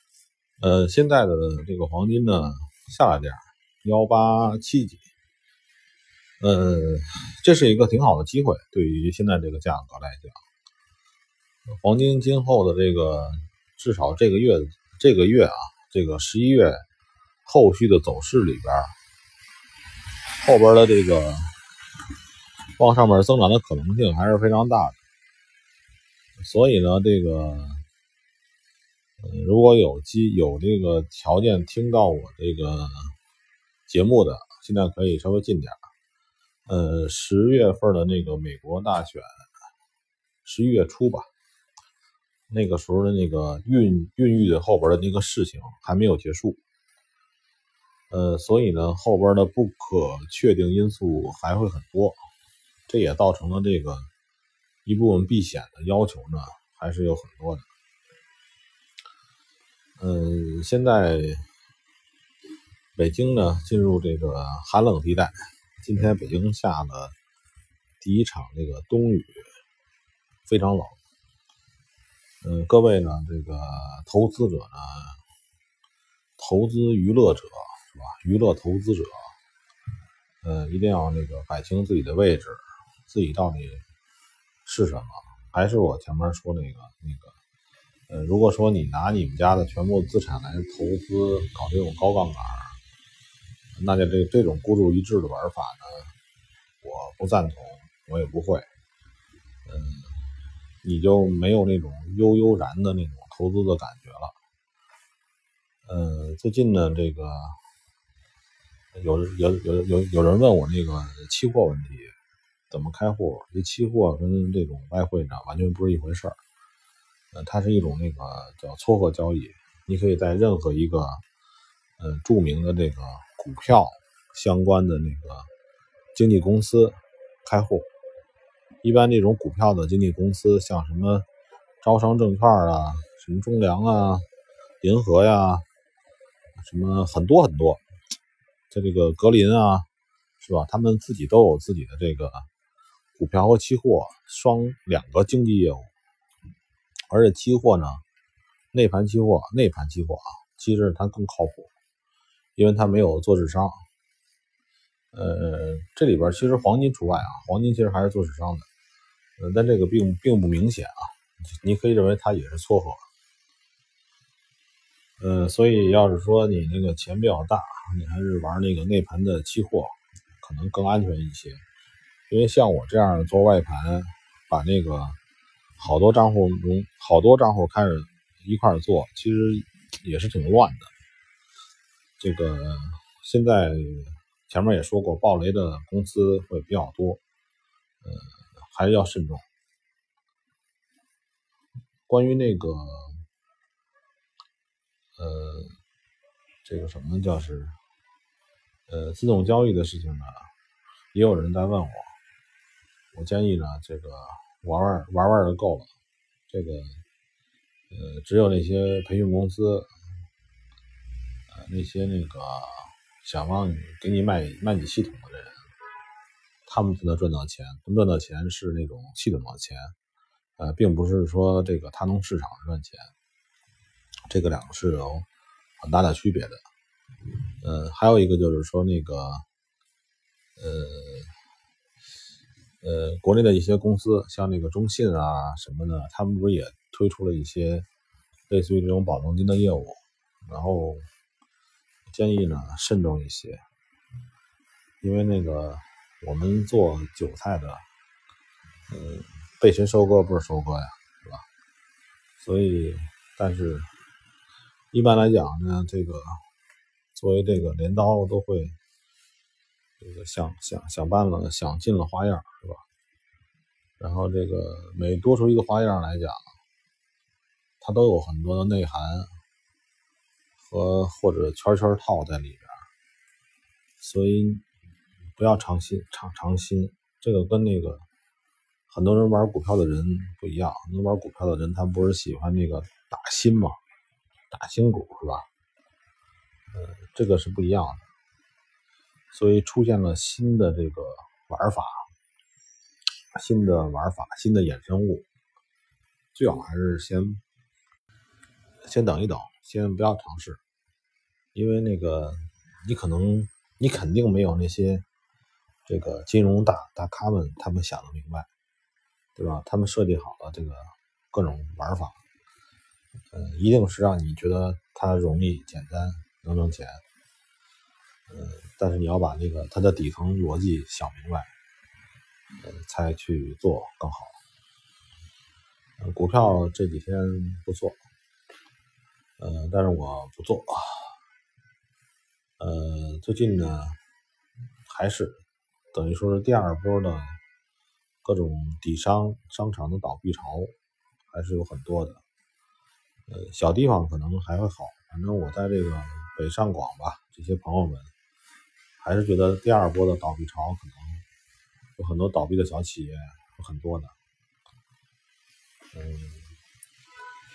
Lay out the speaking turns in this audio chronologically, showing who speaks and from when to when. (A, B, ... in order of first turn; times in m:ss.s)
0:00.6-0:05.1 A
0:06.4-0:10.4 A
0:11.7-0:16.8 A
0:17.4-0:19.0 A
0:20.4-0:21.6 A
0:22.8-0:25.0 A
0:26.4-0:27.8 A
0:29.2-0:33.2 A
0:33.9-0:35.8 A
0:36.7-0:39.3 A
0:40.4-0:41.3 A
0:42.5-0:46.6 A
0:48.1-0:52.2 A
0:52.9-0:54.1 A
0:54.8-0:57.7 A
1:00.0-1:01.5 A
1:03.0-1:07.1 A
1:08.0-1:09.5 A
1:10.4-1:11.0 A
1:12.4-1:15.2 A
1:16.4-1:19.3 A
1:20.4-1:23.8 A
1:24.6-1:27.4 A
1:28.1-1:32.8 A
1:33.8-1:36.1 A
1:36.8-1:38.7 A
1:39.6-1:40.2 A
1:40.8-1:44.3 A
1:45.8-1:47.6 A
1:48.9-1:52.1 A
1:52.7-1:56.4 A
1:57.3-2:01.2 A
2:02.0-2:05.5 A
2:06.1-2:07.9 A
2:08.8-2:11.2 A
2:11.8-2:14.3 A
2:14.8-2:15.7 A
2:16.6-2:17.8 A
2:18.7-2:19.9 A
2:20.4-2:22.5 A
2:23.2-2:25.9 A
2:27.1-2:28.0 A
2:28.7-2:31.7 A
2:32.6-2:33.8 A
2:35.1-2:38.7 A
2:39.4-2:43.0 A
2:45.2-2:51.6 A
2:52.3-2:55.2 A
2:55.8-3:00.9 A
3:02.2-3:07.2 A
3:08.0-3:09.4 A
3:12.1-3:13.2 A
3:15.2-3:15.8 A
3:16.6-3:17.8 A
3:18.9-3:20.5 A
3:21.1-3:22.1 A
3:23.1-3:25.9 A
3:26.5-3:27.0 A
3:27.9-3:29.9 A
3:31.5-3:35.6 A
3:36.7-3:39.9 A
3:40.6-3:43.1 A
3:44.3-3:45.3 A
3:45.8-3:46.6 A
3:47.6-3:49.4 A
3:50.6-3:51.3 A
3:52.8-3:57.8 A
3:58.5-4:01.1 A
4:02.1-4:03.6 A
4:05.0-4:07.8 A
4:08.9-4:11.4 A
4:12.4-4:13.9 A
4:14.9-4:16.4 A
4:17.1-4:18.8 A
4:20.0-4:22.8 A
4:24.0-4:26.4 A
4:27.8-4:29.4 A
4:30.6-4:32.8 A
4:34.0-4:34.6 A
4:35.4-4:38.1 A
4:38.9-4:43.8 A
4:44.5-4:45.5 A
4:46.7-4:48.0 A
4:49.3-4:52.1 A
4:53.3-4:55.2 A
4:56.3-4:57.4 A
4:58.8-5:00.6 A
5:01.5-5:05.0 A
5:05.9-5:08.5 A
5:09.4-5:12.2 A
5:13.3-5:17.0 A
5:18.3-5:21.5 A
5:22.6-5:24.4 A
5:26.0-5:28.0 A
5:29.4-5:31.2 A
5:32.6-5:34.0 A
5:34.9-5:37.4 A
5:38.2-5:40.7 A
5:41.3-5:42.2 A
5:43.3-5:48.1 A
5:49.0-5:51.2 A
5:52.0-5:54.1 A
5:55.9-5:56.5 A